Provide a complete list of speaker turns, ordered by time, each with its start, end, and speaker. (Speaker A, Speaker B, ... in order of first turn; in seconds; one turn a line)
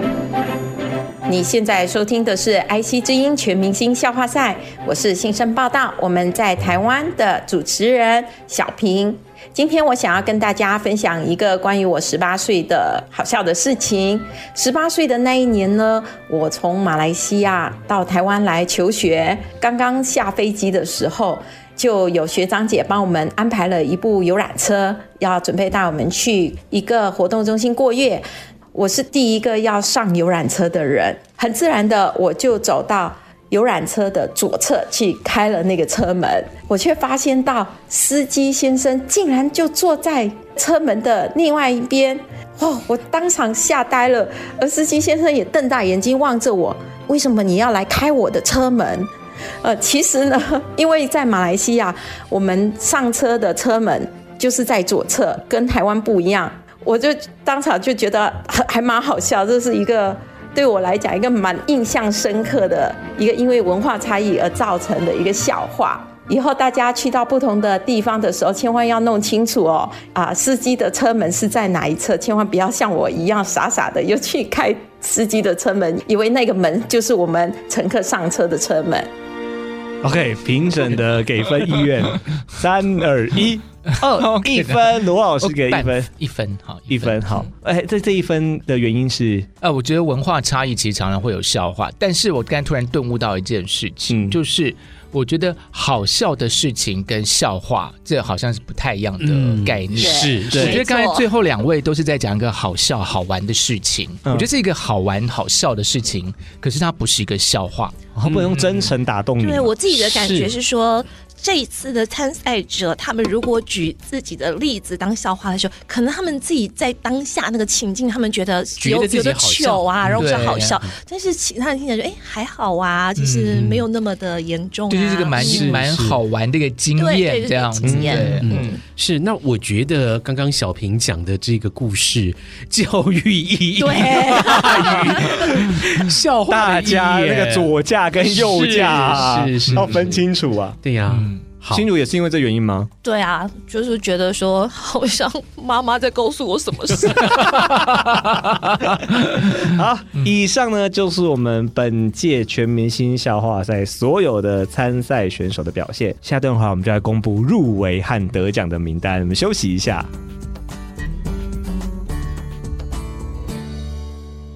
Speaker A: 1.3-49.1
Speaker A: 49.6-79.1
Speaker B: 80.0-86.1
Speaker C: 84.0-87.5
Speaker B: 86.9-89.5
Speaker C: 89.6-108.0
Speaker B: 94.1-94.4
Speaker D: 99.2-100.8
Speaker E: 100.0-101.2
Speaker B: 100.5-100.8
Speaker B: 108.1-109.8
Speaker C: 108.5-108.8
Speaker E: 109.4-125.7
Speaker D: 110.1-110.5
Speaker D: 118.8-120.8
Speaker C: 120.2-120.8
Speaker D: 123.4-123.8
Speaker C: 124.9-128.5
Speaker D: 125.4-126.2
Speaker E: 126.9-128.8
Speaker D: 128.0-137.7
Speaker E: 133.8-135.0
Speaker B: 136.5-140.8
Speaker D: 138.2-140.2
Speaker D: 140.8-141.8
Speaker C: 141.1-141.4
Speaker B: 141.7-142.9
Speaker E: 143.0-147.4
Speaker B: 149.6-160.1